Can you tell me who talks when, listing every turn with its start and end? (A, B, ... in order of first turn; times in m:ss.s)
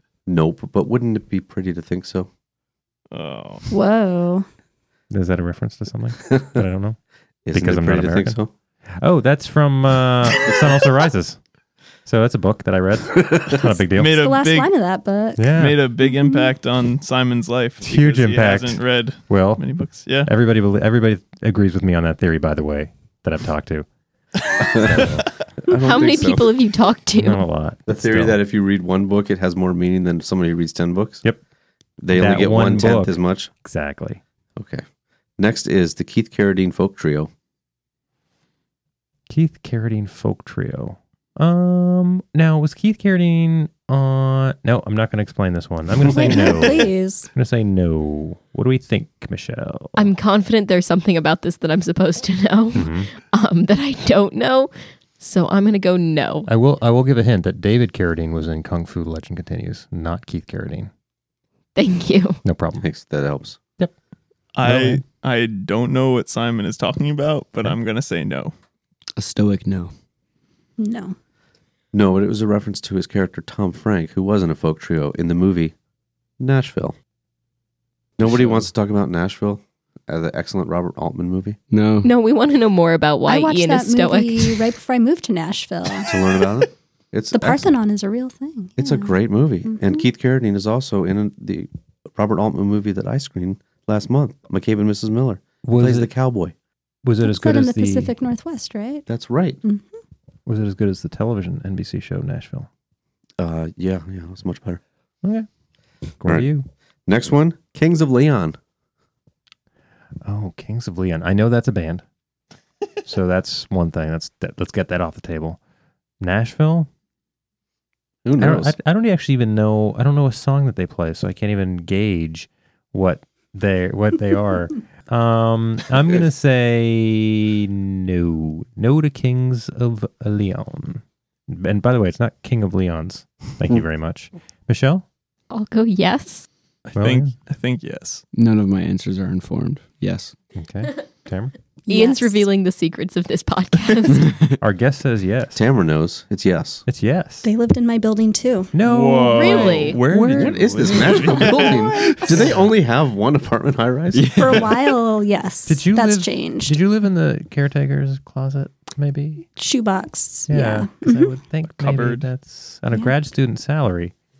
0:00.2-0:02.3 A
0:03.1-0:03.7 B
0:03.7-0:04.5 C
0:05.1-0:07.0 D
0:06.3-0:06.6 A
0:07.4-0:08.5 A
0:07.5-0:08.4 D
0:09.0-0:11.4 D
0:12.0-0:14.3 D
0:13.1-0:13.6 A
0:13.9-0:14.7 B
0:14.0-0:15.5 C
0:15.4-0:15.8 D
0:15.5-0:20.3 B
0:16.0-0:16.5 C
0:17.8-0:19.6 D
0:20.2-0:23.9 D
0:24.6-0:26.6 A
0:24.8-0:25.2 D
0:25.7-0:27.4 E
0:27.1-0:28.4 D
0:27.9-0:31.2 A
0:32.0-0:33.5 A
0:32.1-0:34.2 D
0:34.6-0:34.8 A
0:35.4-0:37.3 A
0:39.3-0:50.1 D
0:46.1-0:47.3 C
0:50.0-0:56.5 E
0:52.7-0:53.1 D
0:56.5-1:00.9 D
1:01.7-1:02.4 E
1:02.4-1:02.8 D
1:02.8-1:03.6 A
1:04.5-1:08.5 B
1:04.6-1:05.0 D
1:09.2-1:09.9 F
1:10.8-1:11.2 C
1:11.9-1:15.7 A
1:16.4-1:17.0 A
1:18.2-1:21.6 A
1:18.2-1:18.6 F
1:21.7-1:22.1 F
1:22.0-1:24.7 E
1:23.2-1:26.1 C
1:26.0-1:27.7 A
1:27.3-1:30.0 C
1:28.8-1:36.5 A
1:35.6-1:36.1 D
1:37.0-1:38.1 D
1:37.2-1:39.1 C
1:39.1-1:39.6 A
1:39.6-1:39.9 C
1:40.4-1:42.7 D
1:43.4-1:44.8 A
1:46.2-1:46.7 D
1:47.1-1:48.6 A
1:50.2-1:52.0 D
1:53.0-1:55.6 D
1:56.2-1:56.9 D
1:58.2-1:58.7 A
1:58.4-2:15.0 D
2:15.5-2:16.5 E
2:16.9-2:17.3 D
2:17.0-2:18.2 B
2:18.3-2:20.3 F
2:20.5-2:21.5 D
2:21.9-2:22.4 C
2:21.9-2:24.4 E
2:24.2-2:24.5 F
2:24.6-2:25.6 D
2:25.5-2:26.8 A
2:26.8-2:27.4 D
2:27.4-2:28.7 C
2:28.7-2:30.5 D
2:28.8-2:32.3 B
2:29.3-2:30.0 E
2:30.3-2:34.6 A
2:32.0-2:32.3 C
2:34.1-2:34.9 F
2:34.3-2:36.8 C
2:35.7-2:39.5 D
2:39.6-2:41.4 C
2:40.5-2:44.1 D
2:41.8-2:42.3 B